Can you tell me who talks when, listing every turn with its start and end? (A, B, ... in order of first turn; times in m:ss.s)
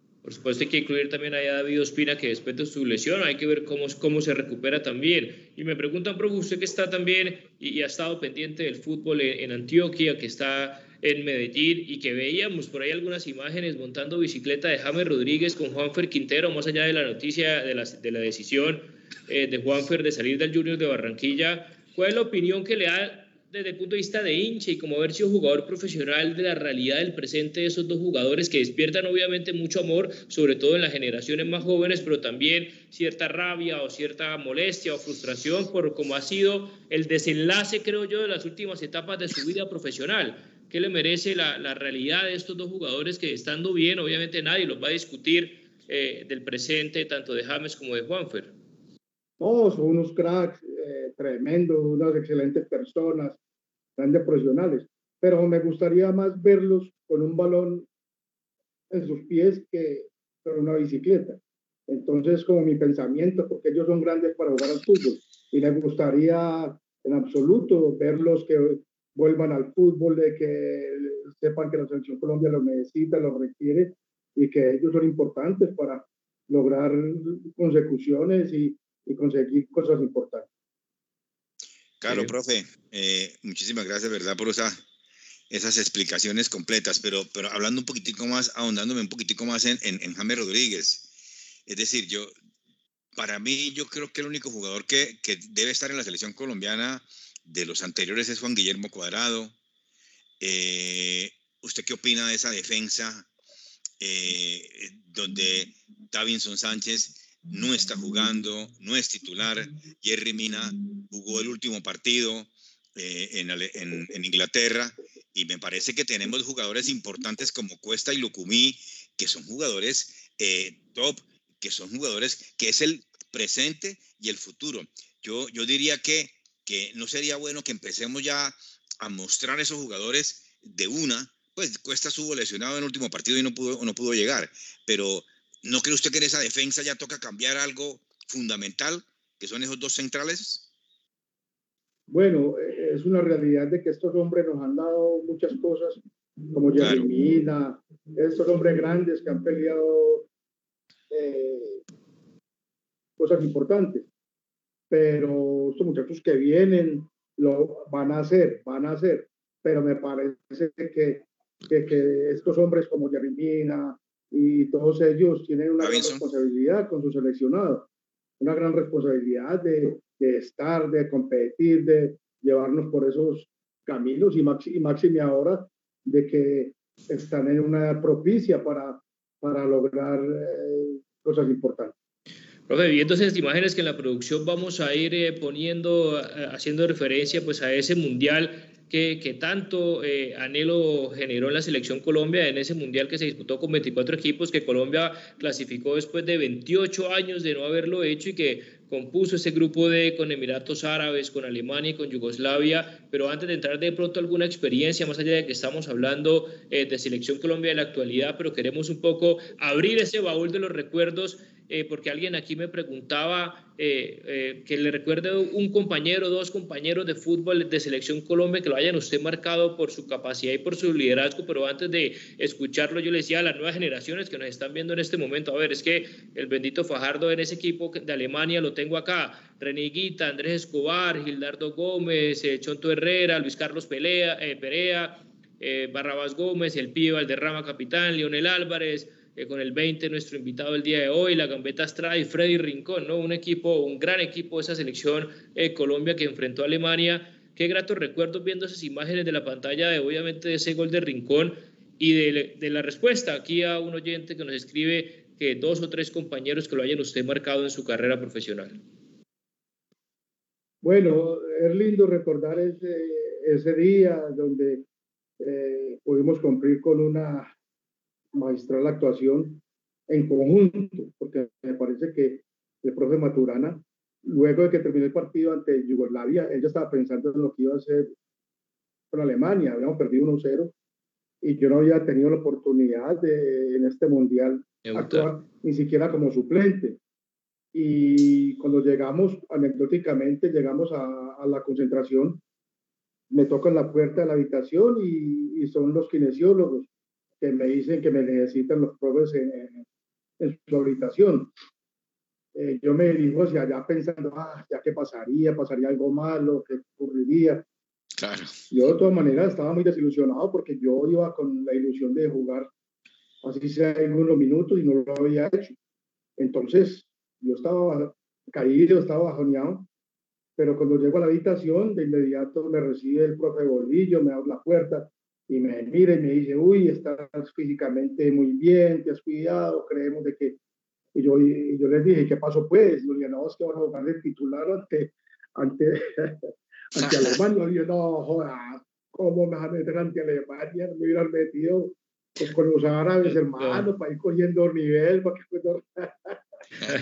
0:00.2-0:48.5 A
0:49.4-0:53.4 B
0:54.0-0:57.9 B
0:58.9-1:20.5 B
1:22.0-1:24.8 C
1:25.5-1:31.1 C
1:31.7-1:32.3 C
1:33.2-1:39.6 C
1:40.4-1:43.3 C
1:44.0-2:20.7 C
2:22.1-2:30.3 B
2:26.8-2:27.1 C
2:31.1-2:31.8 B
2:33.2-2:34.1 B
2:34.9-2:47.9 B
2:45.8-2:46.2 C
2:48.4-3:02.0 B
3:02.7-4:18.8 A
4:20.8-4:24.8 B
4:25.4-4:27.5 B
4:28.3-4:38.1 B
4:39.1-4:40.7 B
4:41.4-4:47.0 B
4:44.8-4:45.3 A
4:47.7-4:52.4 B
4:53.3-4:56.9 B
4:57.4-4:59.8 B
5:00.4-5:01.5 B
5:02.6-5:07.6 B
5:08.2-5:08.6 C
5:08.7-5:12.7 B
5:13.4-5:15.8 B
5:16.4-5:19.9 B
5:20.6-5:30.6 B
5:31.1-5:46.4 B
5:43.5-5:43.9 A